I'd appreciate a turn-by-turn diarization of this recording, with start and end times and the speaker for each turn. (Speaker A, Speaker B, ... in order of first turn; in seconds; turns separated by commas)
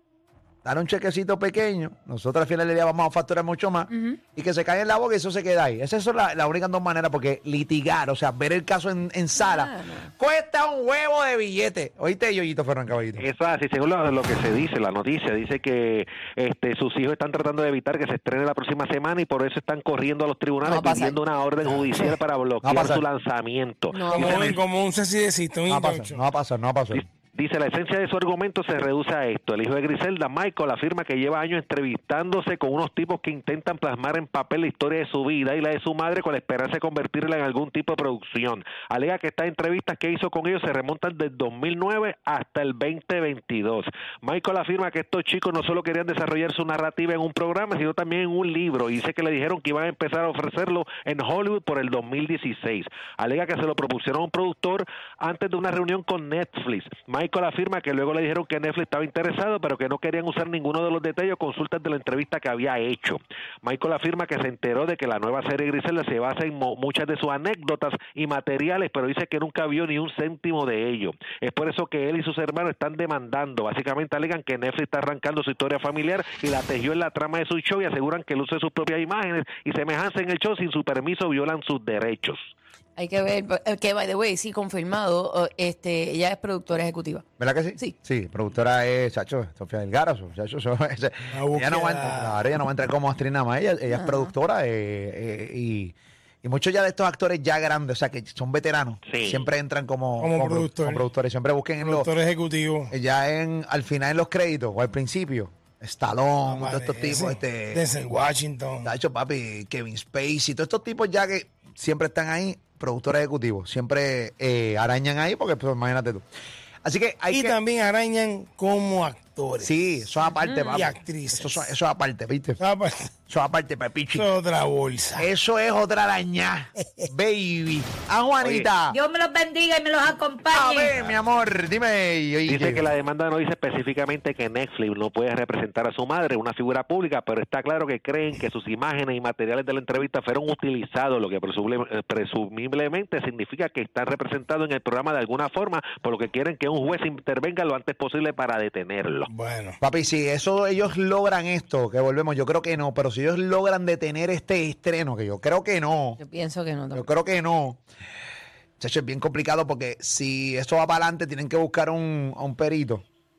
Speaker A: 0.6-13.3, Speaker B: 3.9-4.2, Speaker B: 9.4-10.1, Speaker C: 13.2-24.6, Speaker B: 20.6-21.2, Speaker A: 22.6-23.1, Speaker B: 23.9-24.6, Speaker D: 24.0-26.2, Speaker A: 25.7-27.0, Speaker C: 26.9-82.5, Speaker B: 83.0-88.0, Speaker A: 87.4-102.1, Speaker D: 91.3-92.4, Speaker B: 93.9-94.3, Speaker C: 99.1-99.5, Speaker D: 100.2-101.1, Speaker D: 101.8-102.9, Speaker A: 102.9-107.8, Speaker D: 106.5-108.9, Speaker A: 108.8-116.2, Speaker A: 116.8-117.6, Speaker D: 117.3-119.7, Speaker A: 119.6-122.6, Speaker B: 120.4-120.9, Speaker D: 120.7-121.5, Speaker D: 122.6-123.1, Speaker A: 123.3-124.3, Speaker D: 124.2-125.3, Speaker A: 125.2-129.0, Speaker C: 128.4-128.7, Speaker E: 128.9-130.9, Speaker A: 130.5-132.9, Speaker C: 132.5-149.3, Speaker D: 149.3-149.8, Speaker A: 149.8-156.2, Speaker B: 156.2-157.1, Speaker A: 156.9-157.8, Speaker A: 158.8-163.0